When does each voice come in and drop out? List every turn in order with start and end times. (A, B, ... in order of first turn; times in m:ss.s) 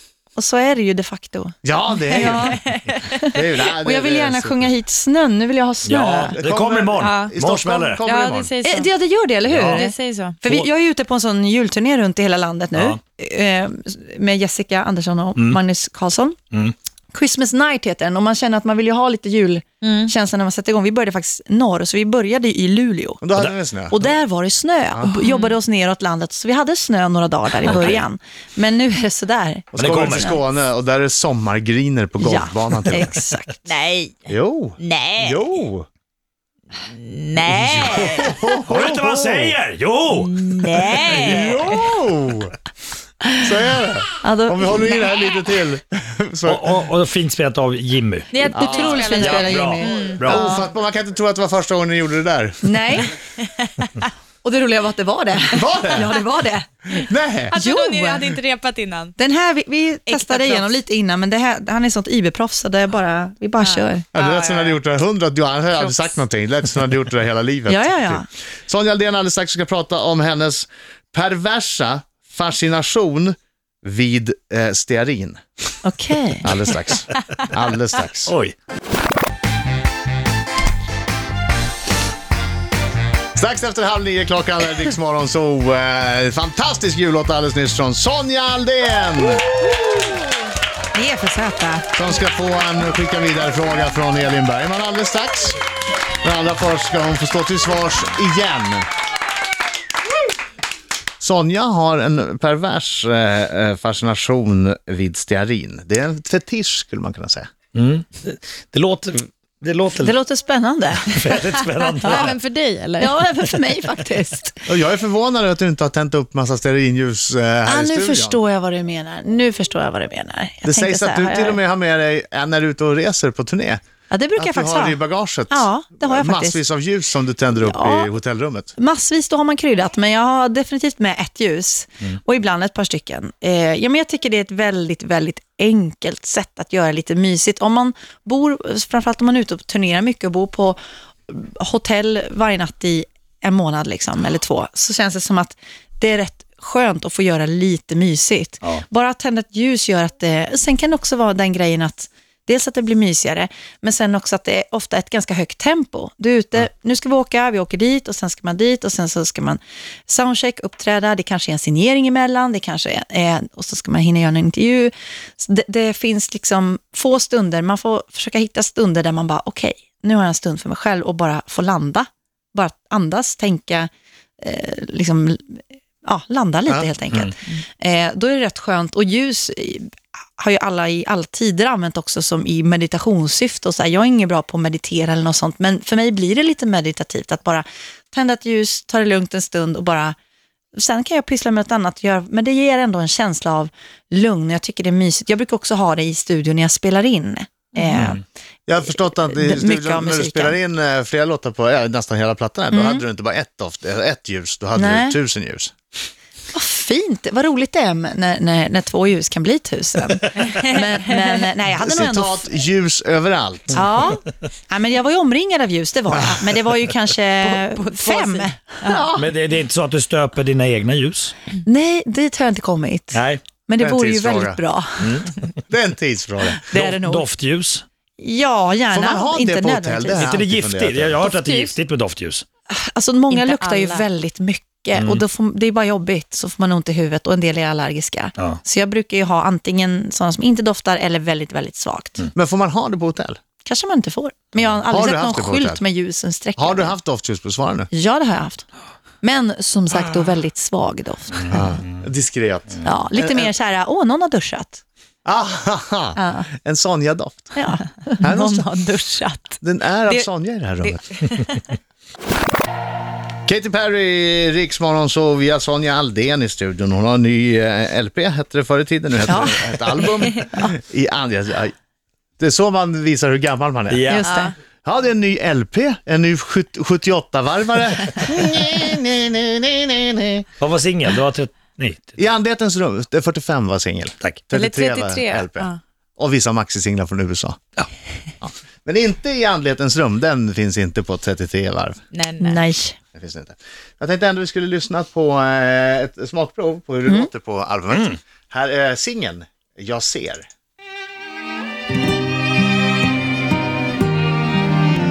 0:00.4-0:06.4 A
0:01.6-0:02.6 B
0:02.1-0:02.5 C
0:03.2-0:04.7 B
0:05.8-0:08.0 D
0:06.3-0:08.5 B
0:07.0-0:07.3 C
0:08.0-0:09.1 C
0:08.6-0:16.4 A
0:09.5-0:09.8 D
0:09.6-0:10.4 C
0:15.4-0:15.6 D
0:17.1-0:23.2 A
0:19.8-0:20.1 C
0:23.2-0:24.1 B
0:23.9-0:30.4 A
0:25.2-0:25.6 C
0:27.6-0:28.0 B
0:29.7-0:33.2 B
0:29.7-0:30.4 D
0:32.2-0:33.6 A
0:33.6-0:35.4 C
0:34.3-0:35.8 B
0:36.9-0:38.4 C
0:37.8-0:39.6 B
0:38.7-0:40.4 D
0:40.1-0:41.7 C
0:41.0-0:42.5 B
0:43.4-0:46.7 B
0:44.2-0:45.0 A
0:46.4-0:48.3 D
0:48.3-0:50.3 C
0:48.4-0:50.5 A
0:48.5-0:49.5 B
0:49.4-0:50.5 D
0:50.2-0:52.7 B
0:52.6-0:53.1 A
0:54.0-0:56.8 A
0:55.5-0:56.1 B
0:56.9-0:57.6 B
0:57.5-0:59.2 C
0:57.5-0:58.4 A
0:59.2-1:04.1 A
1:00.0-1:00.8 C
1:03.6-1:04.8 C
1:04.1-1:15.4 B
1:05.8-1:06.0 C
1:07.7-1:08.2 A
1:15.8-1:16.5 A
1:16.4-1:18.3 B
1:18.2-1:18.5 D
1:23.4-1:29.4 B
1:30.9-1:31.8 A
1:31.9-1:35.6 B
1:36.2-1:38.8 B
1:41.2-1:47.5 B
1:47.7-1:50.2 D
1:50.0-1:51.4 A
1:51.0-1:52.4 D
1:51.8-1:53.2 C
1:53.0-1:54.6 A
1:54.7-1:58.4 B
1:57.6-2:01.6 A
2:00.6-2:03.8 B
2:04.1-2:06.6 A
2:04.4-2:08.7 B
2:07.6-2:08.1 A
2:08.8-2:53.9 A
2:54.4-3:10.1 A
3:10.7-3:18.2 A
3:18.7-3:25.7 B
3:18.9-3:20.6 A
3:22.7-3:23.0 A
3:24.8-3:25.2 A
3:26.5-3:32.5 A
3:30.4-3:31.3 C
3:31.8-3:33.8 B
3:33.7-3:39.2 A
3:36.1-3:36.5 B
3:37.4-3:39.1 C
3:39.1-3:41.3 D
3:41.6-3:45.3 A
3:43.1-3:43.4 D
3:43.8-3:44.6 B
3:45.0-3:45.4 D
3:45.7-3:46.7 B
3:46.7-3:47.8 D
3:46.7-3:47.3 A
3:48.2-3:50.3 A
3:48.9-3:51.3 B
3:50.2-3:52.4 D
3:52.7-4:02.3 A
3:53.3-3:54.1 C
3:54.9-3:55.2 D
4:02.3-4:03.4 B
4:03.6-4:07.0 A
4:04.6-4:05.8 B
4:06.6-4:07.9 B
4:07.9-4:08.6 A
4:09.2-4:11.6 A
4:11.5-4:13.5 B
4:12.8-4:14.8 A
4:15.2-4:17.5 B
4:16.2-4:16.5 A
4:17.6-4:19.5 A
4:18.1-4:19.4 C
4:18.2-4:18.7 B
4:19.6-4:21.0 B
4:21.2-4:21.7 C
4:23.4-4:31.7 B
4:29.3-4:29.8 A
4:32.4-4:34.1 B
4:33.9-4:34.4 D
4:34.1-4:34.5 A
4:34.8-4:40.4 B
4:40.6-4:42.2 D
4:42.2-4:47.6 B
4:44.2-4:44.5 D
4:44.5-4:45.8 C
4:48.4-4:52.0 B
4:52.1-4:52.6 C
4:52.4-4:53.0 A
4:53.1-5:00.4 B